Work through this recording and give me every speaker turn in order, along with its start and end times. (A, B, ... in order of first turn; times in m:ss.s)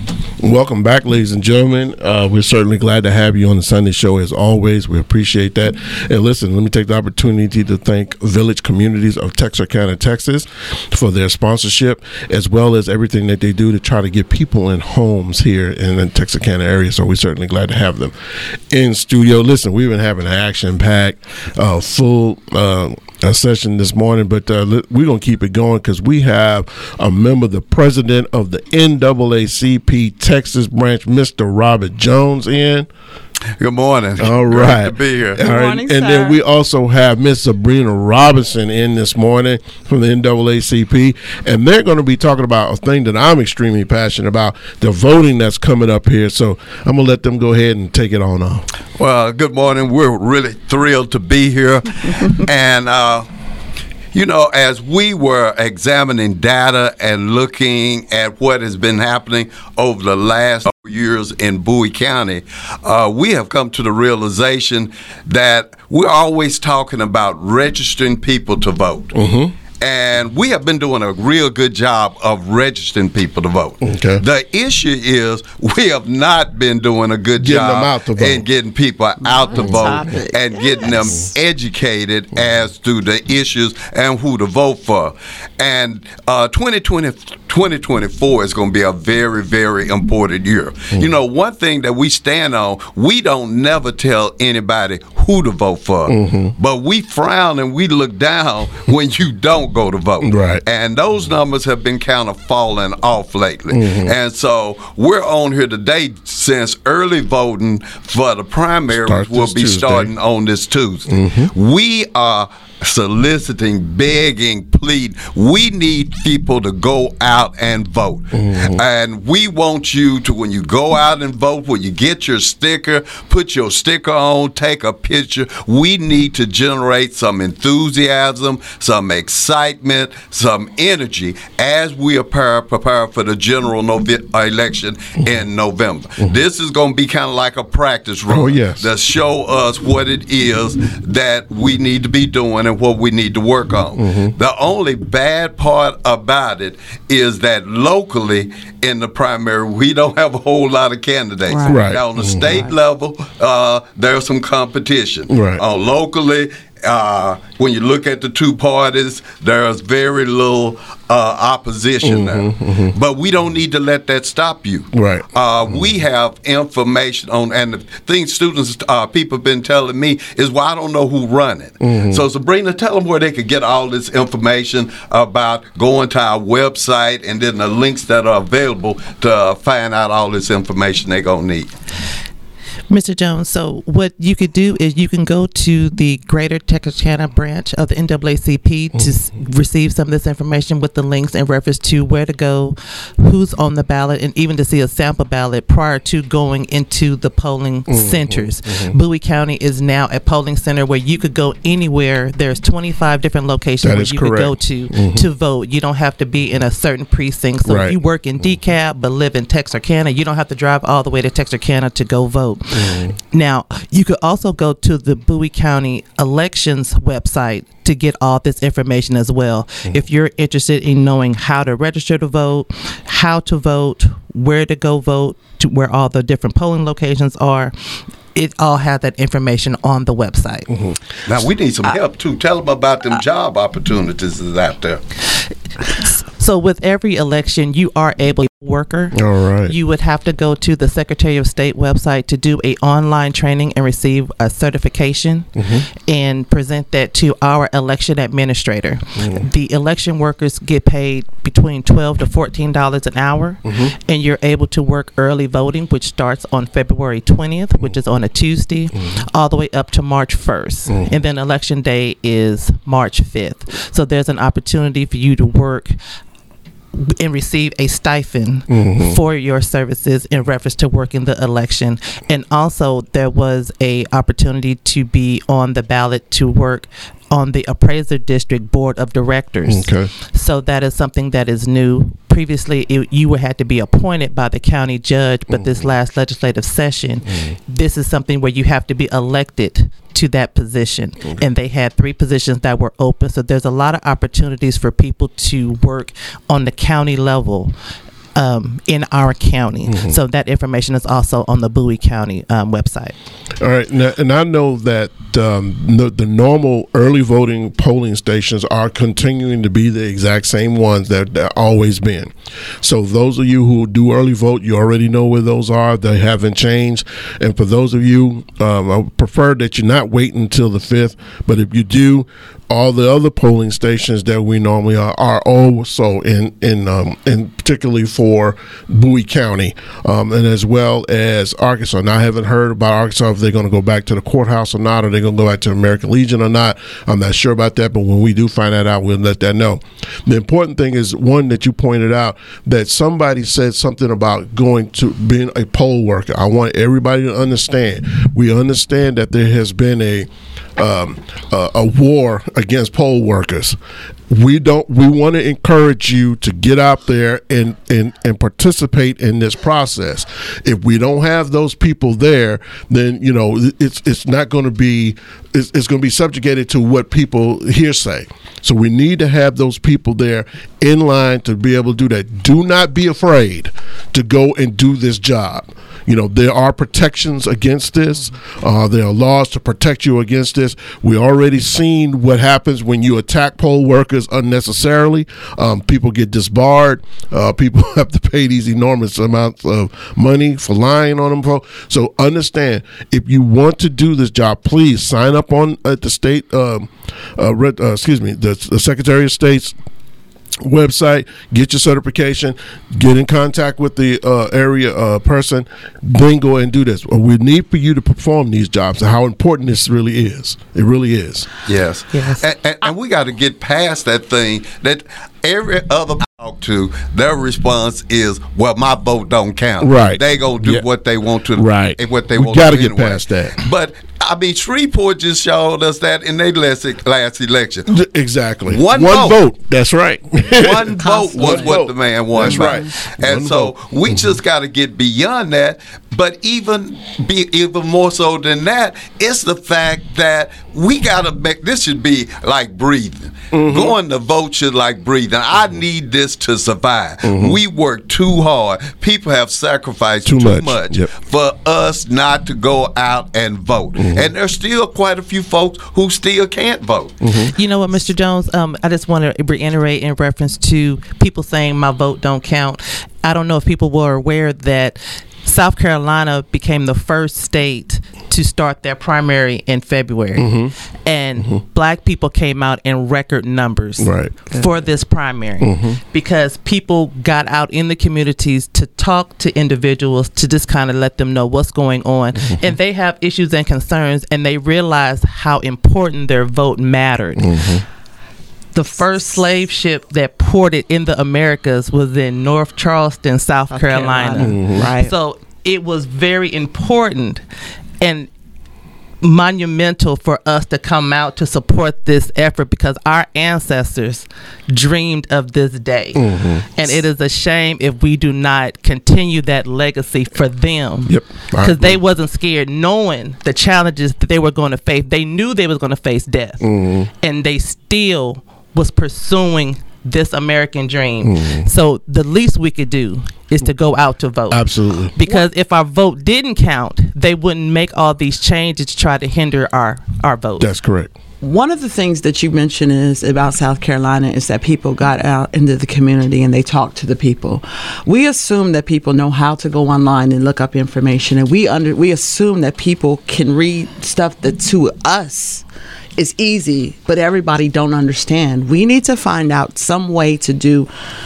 0:00.4-0:18.1 A
0:18.7-0:32.9 A
0:33.6-0:35.4 B
0:34.2-0:48.6 A
0:35.4-0:36.4 C
0:49.0-0:53.3 B
0:54.1-1:09.1 B
1:09.1-1:09.5 A
1:09.8-3:01.7 B
1:13.8-1:14.2 A
1:17.4-1:18.4 A
1:19.2-1:21.1 C
1:36.1-1:36.5 A
1:40.2-1:40.6 A
1:43.7-1:44.1 A
1:48.9-1:50.1 A
1:51.1-1:51.5 A
1:58.3-1:58.8 A
2:18.3-2:18.9 A
2:24.0-2:24.3 A
2:31.5-2:31.9 C
2:31.6-2:32.6 A
2:32.4-2:32.7 C
2:35.3-2:35.6 A
2:42.0-2:42.9 A
2:44.9-2:45.3 A
2:51.8-2:52.2 A
3:02.9-3:47.7 D
3:17.9-3:19.0 A
3:23.8-3:25.3 A
3:27.6-3:28.0 A
3:32.7-3:33.1 A
3:48.3-3:50.7 D
3:50.7-3:50.9 A
3:51.3-3:55.0 B
3:55.9-4:25.9 D
3:59.1-3:59.8 A
4:05.6-4:05.8 A
4:20.9-4:21.1 A
4:26.9-4:57.7 D
4:28.7-4:29.2 A
4:39.7-4:40.1 A
4:58.3-5:03.2 D
5:03.6-5:53.8 A
5:54.3-6:39.7 A
6:40.6-6:51.5 A
6:51.6-7:07.9 B
6:52.1-6:52.4 D
6:59.8-7:00.8 A
7:01.6-7:03.6 A
7:07.9-7:14.3 A
7:08.7-7:09.4 B
7:10.6-7:37.2 B
7:11.0-7:11.7 C
7:12.5-7:12.8 C
7:23.5-7:23.9 A
7:27.2-7:27.6 A
7:30.2-7:31.1 A
7:34.0-7:34.3 A
7:37.2-7:37.5 A
7:37.5-7:50.5 D
7:50.4-7:50.7 A
7:51.0-8:07.5 D
7:54.0-7:54.4 A
7:55.6-7:56.0 A
8:07.4-8:07.8 A
8:08.7-8:17.4 D
8:13.7-8:15.1 C
8:14.4-8:14.9 A
8:18.0-8:18.3 D
8:19.2-8:36.6 D
8:26.1-8:26.7 A
8:31.0-8:32.0 A
8:36.6-8:37.1 A
8:37.2-8:50.7 D
8:41.2-8:41.7 A
8:44.5-8:45.1 A
8:50.6-8:51.1 A
8:51.4-9:05.6 C
9:06.2-9:10.9 C